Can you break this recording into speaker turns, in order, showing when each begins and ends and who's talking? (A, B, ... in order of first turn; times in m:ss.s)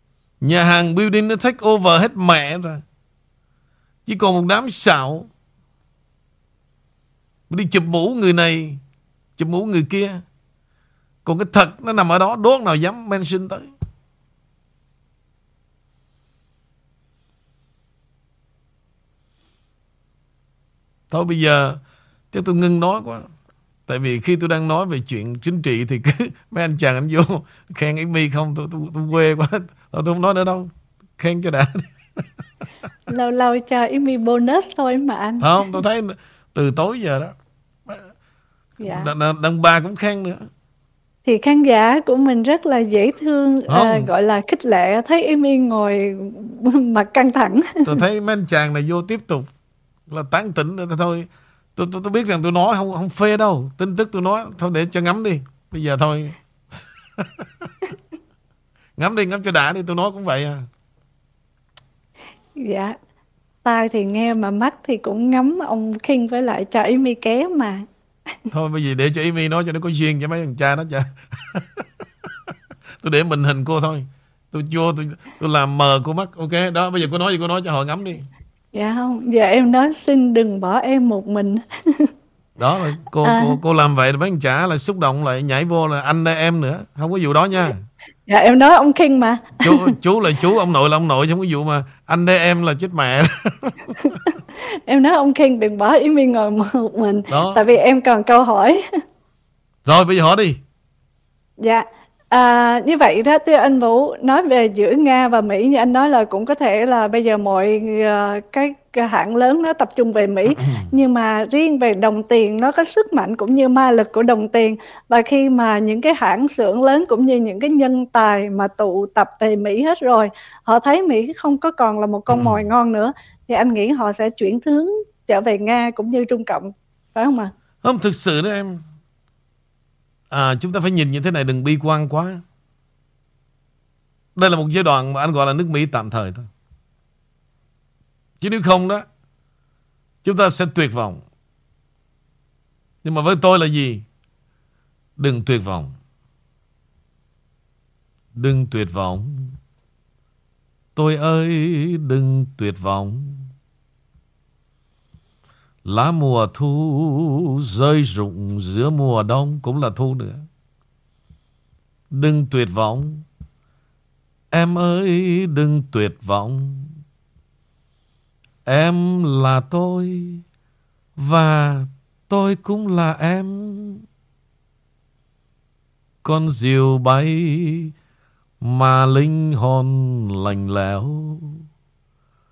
0:00.4-0:02.8 A
0:04.1-0:05.3 A
0:07.5-0:08.8 A
0:09.4-0:10.2 A
0:11.2-0:13.7 A
0:21.1-0:21.8 A
0:22.3-0:23.3 A
0:23.9-0:32.2 A
0:33.1-0:35.7 B
0:35.4-0:37.3 A
0:38.8-0:39.1 B
0:38.8-0:40.4 A
0:41.3-0:48.0 B
0:43.7-0:44.1 A
0:47.9-0:49.5 A
0:50.1-0:56.4 A
0:57.2-0:57.4 A
0:59.0-1:00.6 A
1:02.6-1:03.0 B
1:03.6-1:07.9 B
1:08.5-1:11.8 A
1:13.0-1:18.2 A
1:18.7-1:22.1 B
1:22.6-1:27.8 A
1:23.2-1:23.6 B
1:28.3-1:29.9 B
1:29.6-1:34.2 A
1:34.9-1:38.8 B
1:37.3-1:37.6 A
1:39.9-1:40.6 A
1:41.6-2:07.5 B
2:02.3-2:02.6 A
2:07.8-2:08.8 A
2:10.3-2:12.4 A
2:14.4-2:16.5 A
2:18.4-2:19.1 A
2:20.2-2:21.2 A
2:23.0-2:24.0 A
2:25.2-2:25.9 A
2:28.4-2:29.5 A
2:31.0-2:33.5 A
2:35.8-2:40.4 A
2:42.1-2:43.2 A
2:44.5-2:46.9 A
2:48.7-2:50.4 A
2:51.2-2:54.0 A
2:56.2-2:57.9 A
2:58.6-3:01.6 A